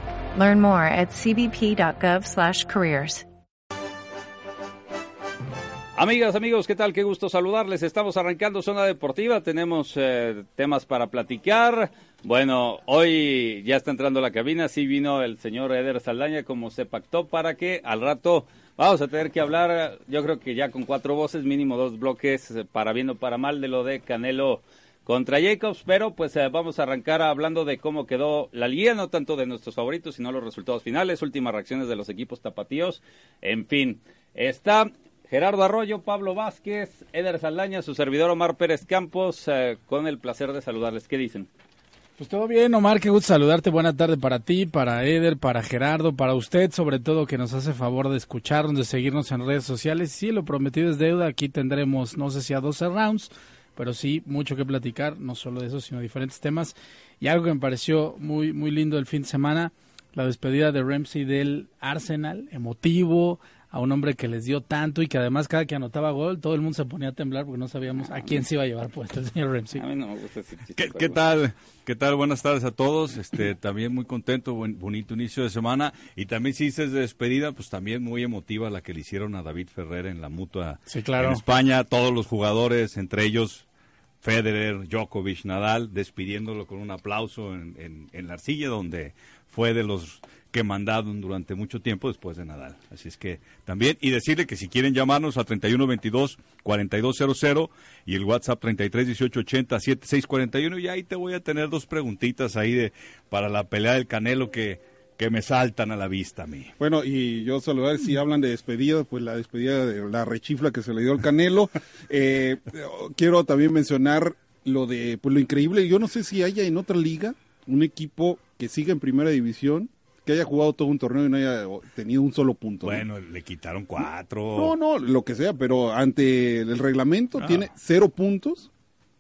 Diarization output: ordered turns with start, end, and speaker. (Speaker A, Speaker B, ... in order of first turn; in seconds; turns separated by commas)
Speaker A: 0.3-3.2, Speaker B: 6.0-41.5, Speaker C: 42.2-69.8, Speaker B: 69.8-71.2, Speaker D: 70.8-83.7, Speaker C: 80.9-81.4, Speaker D: 84.2-106.7, Speaker E: 106.8-123.0, Speaker D: 122.8-124.7, Speaker E: 124.5-128.7, Speaker D: 127.4-127.7